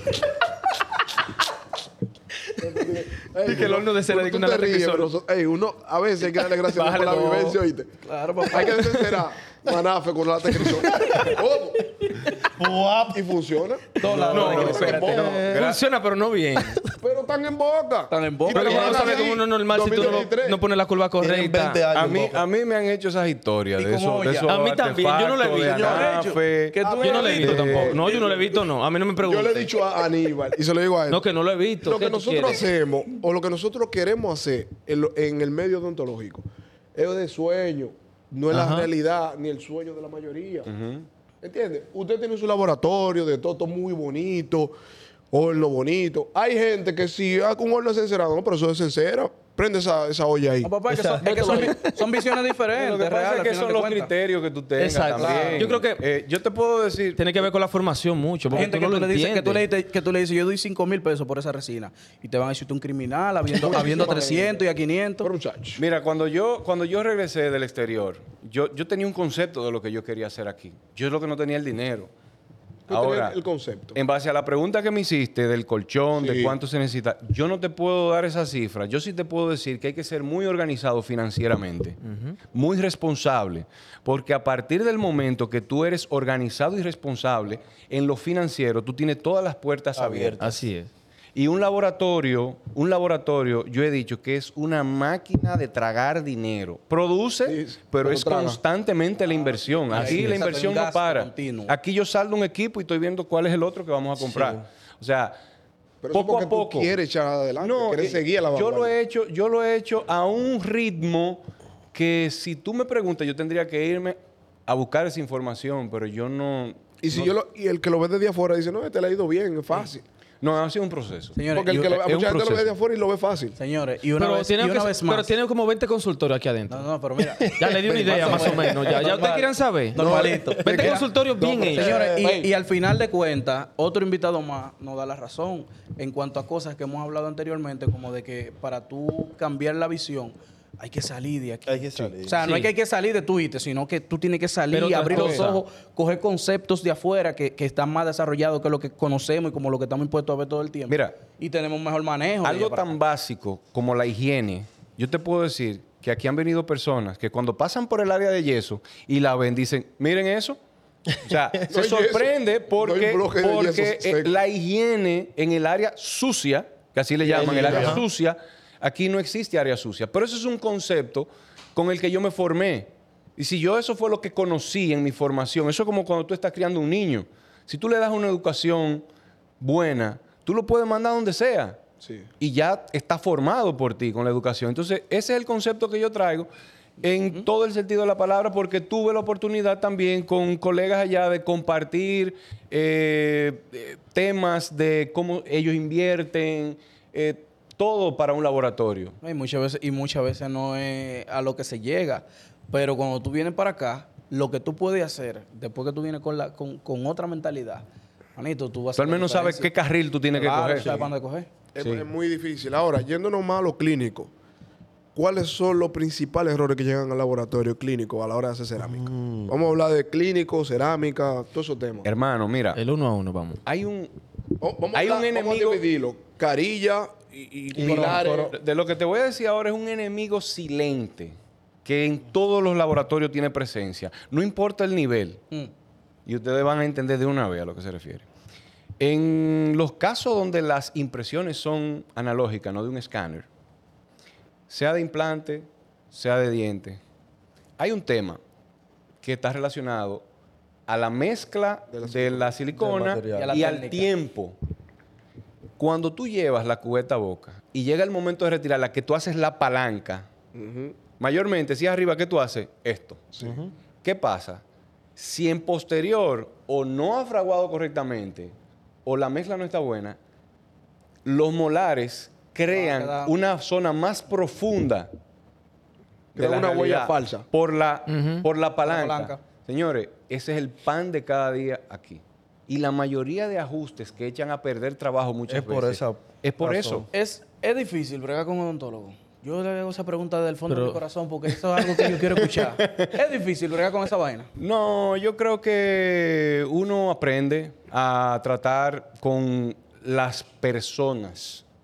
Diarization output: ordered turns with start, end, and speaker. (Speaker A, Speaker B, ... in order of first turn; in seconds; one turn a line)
Speaker A: 2.6-7.9
Speaker B: 3.4-5.1
Speaker B: 6.6-7.6
Speaker C: 8.0-8.9
Speaker A: 8.5-12.2
Speaker D: 10.9-11.3
Speaker D: 12.3-13.2
Speaker A: 13.1-15.6
Speaker C: 14.0-15.4
Speaker D: 14.0-15.6
Speaker B: 14.3-16.8
Speaker E: 14.4-15.0
Speaker E: 15.5-15.8
Speaker A: 17.0-20.6
Speaker C: 18.1-19.3
Speaker B: 18.5-21.8
Speaker D: 21.2-22.4
Speaker E: 21.9-28.0
Speaker C: 23.8-24.5
Speaker B: 24.4-26.2
Speaker C: 25.6-27.9
Speaker A: 26.8-28.6
Speaker B: 26.9-29.7
Speaker A: 29.2-31.2
Speaker B: 31.1-32.7
Speaker A: 31.8-40.7
Speaker B: 38.5-38.9
Speaker E: 40.7-41.0
Speaker A: 41.4-44.7
Speaker A: 45.3-50.7
Speaker C: 50.6-54.1
Speaker D: 50.9-51.9
Speaker A: 51.4-51.7
Speaker E: 52.7-57.2
Speaker B: 54.8-56.0
Speaker C: 55.2-55.6
Speaker A: 55.3-55.6
Speaker B: 57.2-59.6
Speaker C: 58.5-65.3
Speaker A: 63.6-64.6
Speaker A: 65.2-65.8
Speaker E: 65.8-72.1
Speaker A: 72.9-74.0
Speaker E: 72.9-73.4
Speaker E: 73.9-82.0
Speaker A: 76.2-76.6
Speaker B: 82.0-82.4
Speaker E: 82.5-90.4
Speaker D: 90.0-90.6
Speaker B: 90.4-90.9
Speaker E: 91.3-105.4
Speaker A: 97.5-98.5
Speaker C: 98.2-98.5
Speaker C: 99.8-101.7
Speaker B: 99.9-100.4
Speaker A: 106.0-108.9
Speaker E: 106.1-106.9
Speaker E: 107.6-117.3
Speaker A: 117.0-120.0
Speaker E: 120.4-122.7
Speaker C: 121.3-121.9
Speaker A: 121.5-123.6
Speaker C: 123.6-125.3
Speaker B: 124.2-126.9
Speaker C: 126.7-131.1
Speaker D: 127.2-129.1
Speaker B: 127.4-132.1
Speaker A: 128.2-128.5
Speaker D: 129.9-130.9
Speaker A: 130.0-132.5
Speaker C: 131.7-152.9
Speaker D: 131.8-132.3
Speaker D: 141.7-142.5
Speaker B: 142.4-142.7
Speaker B: 144.7-145.6
Speaker E: 150.9-151.2
Speaker E: 152.4-160.6
Speaker E: 161.2-179.1
Speaker A: 161.7-164.3
Speaker D: 167.2-168.0
Speaker A: 167.4-167.9
Speaker E: 179.6-181.8
Speaker A: 182.0-182.3
Speaker E: 182.4-186.5
Speaker E: 187.0-199.2
Speaker C: 199.2-209.7
Speaker E: 208.9-211.1
Speaker C: 210.3-211.5
Speaker A: 211.7-214.3
Speaker E: 211.8-212.1
Speaker A: 215.1-222.1
Speaker D: 218.8-219.5
Speaker E: 222.0-222.8
Speaker B: 222.7-223.6
Speaker E: 223.7-224.1
Speaker A: 224.6-228.5
Speaker E: 224.9-225.8
Speaker D: 227.7-228.5
Speaker C: 227.8-228.2
Speaker E: 228.5-235.4
Speaker E: 236.2-238.2
Speaker E: 239.0-243.5
Speaker E: 244.7-247.0
Speaker E: 247.8-248.4
Speaker E: 249.2-250.2
Speaker E: 250.9-254.6
Speaker A: 251.9-252.5
Speaker D: 252.8-253.7
Speaker C: 253.3-254.1
Speaker E: 255.8-260.3
Speaker A: 260.5-261.0
Speaker E: 261.2-263.4
Speaker D: 263.4-263.7
Speaker E: 264.0-264.6
Speaker E: 265.1-270.2
Speaker E: 271.2-275.1
Speaker C: 272.7-273.3
Speaker E: 276.3-287.1
Speaker A: 276.4-277.4
Speaker B: 278.1-278.4
Speaker C: 278.8-279.4
Speaker D: 285.5-287.1
Speaker C: 287.1-294.5
Speaker B: 290.7-291.0
Speaker E: 292.3-293.1
Speaker E: 294.6-301.6